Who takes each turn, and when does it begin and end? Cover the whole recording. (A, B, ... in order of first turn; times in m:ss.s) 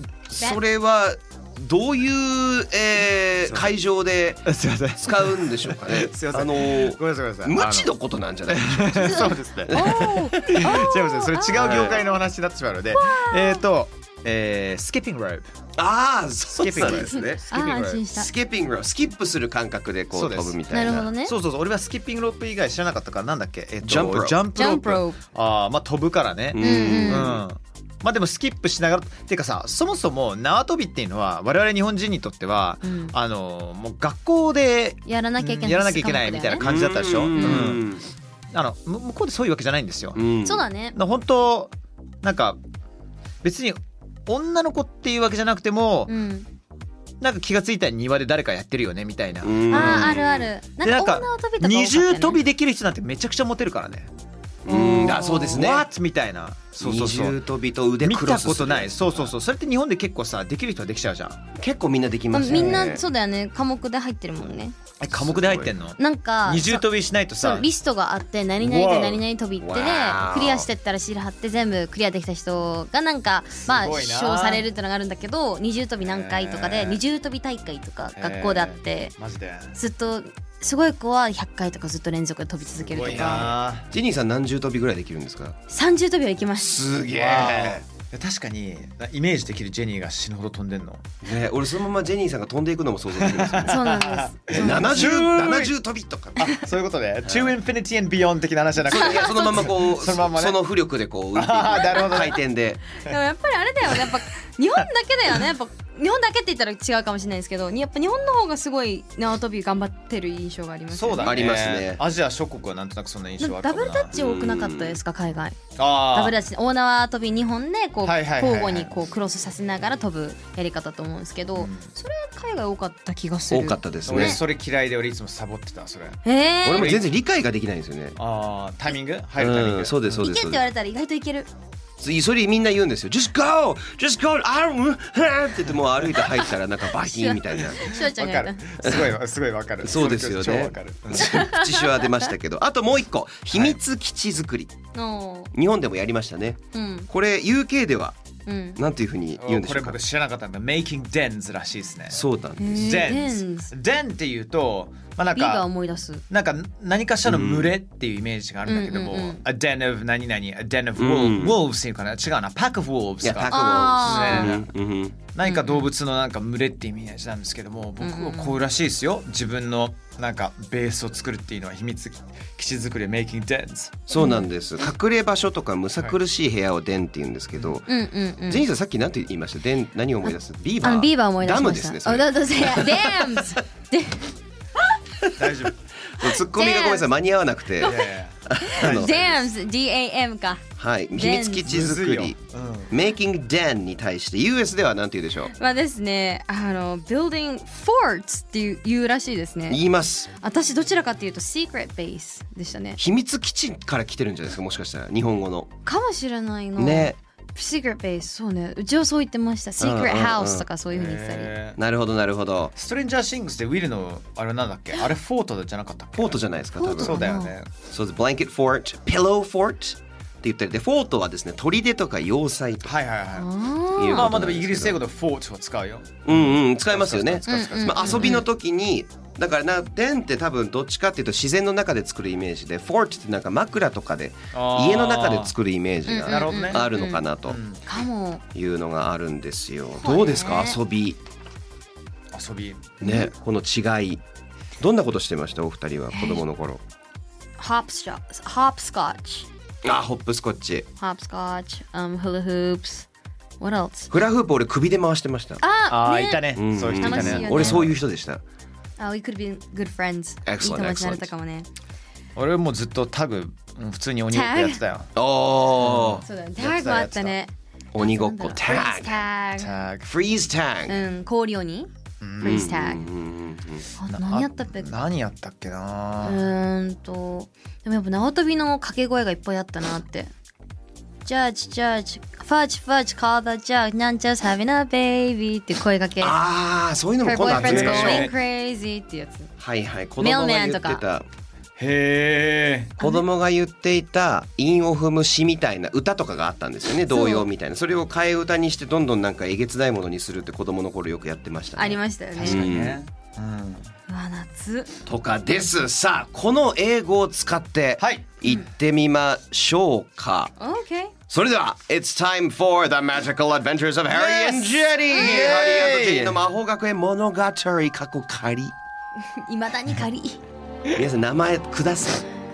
0:00.3-0:10.6 A
0:04.5-0:07.9 B
0:08.5-0:15.5 B
0:09.0-0:11.9 C
0:11.5-0:12.0 A
0:12.9-0:13.6 C
0:15.8-0:17.4 A
0:16.5-0:18.0 B
0:16.8-0:18.3 C
0:18.0-0:21.1 A
0:20.1-0:20.6 B
0:20.7-0:21.4 C
0:21.2-0:37.9 B
0:23.8-0:24.4 A
0:24.5-0:25.2 C
0:26.5-0:27.4 A
0:26.6-0:27.4 C
0:32.8-0:33.1 C
0:35.1-0:36.6 C
0:36.6-0:38.1 A
0:37.3-0:37.7 C
0:38.5-0:40.2 B
0:40.2-0:40.6 A
0:40.4-0:41.0 C
0:40.9-0:42.6 B
0:43.4-0:46.1 B
0:46.1-0:46.5 C
0:47.2-0:50.2 B
0:49.4-0:50.5 A
0:49.7-0:52.4 C
0:50.8-0:54.1 B
0:54.6-0:55.9 A
0:54.7-0:55.6 C
0:55.5-0:57.4 B
0:56.8-0:59.3 A
0:58.0-1:01.4 B
1:01.6-1:03.0 A
1:02.3-1:04.8 C
1:02.5-1:02.9 B
1:05.0-1:07.7 B
1:05.1-1:05.8 A
1:06.0-1:06.9 C
1:07.4-1:19.1 C
1:08.6-1:09.2 B
1:09.6-1:10.7 A
1:13.6-1:14.7 B
1:16.0-1:17.0 B
1:18.2-1:19.8 B
1:19.7-1:23.5 C
1:22.8-1:23.9 B
1:23.0-1:25.6 A
1:25.7-1:26.8 C
1:26.6-1:27.8 A
1:27.1-1:31.1 B
1:31.2-1:33.9 A
1:33.1-1:35.7 B
1:33.6-1:35.2 C
1:34.5-1:36.5 A
1:36.4-1:40.6 B
1:37.2-1:37.5 A
1:38.9-1:42.8 A
1:39.0-1:39.7 C
1:41.3-1:42.4 B
1:41.8-1:42.3 C
1:43.0-1:51.4 C
1:50.9-1:54.1 B
1:51.2-1:52.0 A
1:53.4-2:04.4 C
1:54.1-1:55.0 A
1:55.8-1:56.4 B
1:58.0-1:59.0 B
2:01.6-2:01.9 B
2:03.5-2:04.4 A
2:04.1-2:06.2 B
2:06.2-2:07.0 C
2:06.6-2:08.2 A
2:06.7-2:07.1 B
2:08.2-2:10.2 B
2:09.4-2:10.6 A
2:10.2-2:11.5 C
2:12.0-2:18.0 A
2:17.0-2:18.7 C
2:17.9-2:21.5 B
2:18.8-2:19.1 A
2:19.8-2:24.8 A
2:21.2-2:21.8 C
2:25.0-2:25.5 C
2:25.5-2:28.2 A
2:26.7-2:27.1 C
2:28.5-2:28.8 C
2:28.8-2:30.0 A
2:29.4-2:32.2 B
2:32.1-2:33.1 A
2:32.6-2:33.7 C
2:32.8-2:35.7 B
2:35.4-2:36.2 C
2:36.3-2:44.7 B
2:37.2-2:37.7 A
2:38.7-2:39.4 C
2:41.0-2:41.6 A
2:43.2-2:45.2 A
2:43.5-2:44.6 C
2:45.3-2:54.2 B
2:45.4-2:45.9 C
2:48.0-2:48.6 C
2:54.1-2:57.9 A
2:54.2-2:54.4 C
2:57.9-2:58.6 C
2:58.5-3:03.6 A
3:00.3-3:04.9 C
3:05.2-3:05.6 A
3:05.4-3:05.7 B
3:06.2-3:09.4 A
3:06.2-3:07.1 C
3:07.8-3:08.1 C
3:07.8-3:09.4 B
3:08.6-3:11.7 C
3:10.8-3:12.4 A
3:11.7-3:13.0 B
3:12.9-3:15.5 A
3:15.5-3:19.8 C
3:19.7-3:20.3 A
3:20.4-3:23.0 C
3:23.0-3:25.7 A
3:25.8-3:31.5 C
3:26.8-3:27.2 A
3:29.8-3:30.7 A
3:30.9-3:31.8 B
3:31.8-3:32.7 A
3:32.7-3:36.4 B
3:36.2-3:37.2 A
3:36.8-3:37.5 C
3:37.0-3:37.7 B
3:37.9-3:43.0 A
3:42.8-3:43.5 B
3:43.4-3:44.4 C
3:44.0-3:45.0 A
3:44.1-3:48.4 B
3:46.3-3:57.6 A
3:47.5-3:48.5 C
3:54.5-3:55.5 B
3:56.1-3:57.2 C
3:56.2-3:56.9 B
3:57.5-3:57.8 B
3:57.8-3:58.4 C
3:58.6-4:01.2 A
4:00.0-4:00.8 C
4:02.3-4:03.0 B
4:03.0-4:04.2 A
4:04.8-4:06.8 A
4:06.1-4:06.4 C
4:07.6-4:09.5 C
4:09.8-4:10.9 A
4:11.0-4:13.1 C
4:13.6-4:14.1 C
4:14.1-4:15.6 A
4:15.6-4:17.9 C
4:15.9-4:18.0 B
4:16.6-4:18.4 A
4:19.0-4:21.7 C
4:20.5-4:21.3 A
4:22.4-4:25.1 B
4:24.3-4:24.8 C
4:25.2-4:26.2 A
4:25.8-4:27.4 B
4:26.2-4:29.7 C
4:27.9-4:29.2 A
4:29.6-4:30.1 B
4:30.1-4:31.0 A
4:30.9-4:33.0 C
4:32.2-4:32.6 B
4:32.4-4:33.9 A
4:34.0-4:35.0 C
4:34.1-4:36.4 B
4:36.2-4:40.3 C
4:41.2-4:46.4 C
4:46.2-4:48.3 A
4:47.2-4:49.5 C
4:47.5-4:48.3 B
4:49.6-4:51.3 A
4:50.2-4:51.0 C
4:51.8-4:53.0 B
4:53.0-5:03.0 A
4:57.1-4:57.5 C
5:01.8-5:02.6 C
5:02.4-5:03.9 B
5:04.1-5:04.9 C
5:05.1-5:10.5 A
5:08.0-5:08.3 B
5:10.6-5:11.1 C
5:11.3-5:18.7 A
5:14.1-5:16.4 B
5:19.2-5:20.4 C
5:21.0-5:22.3 A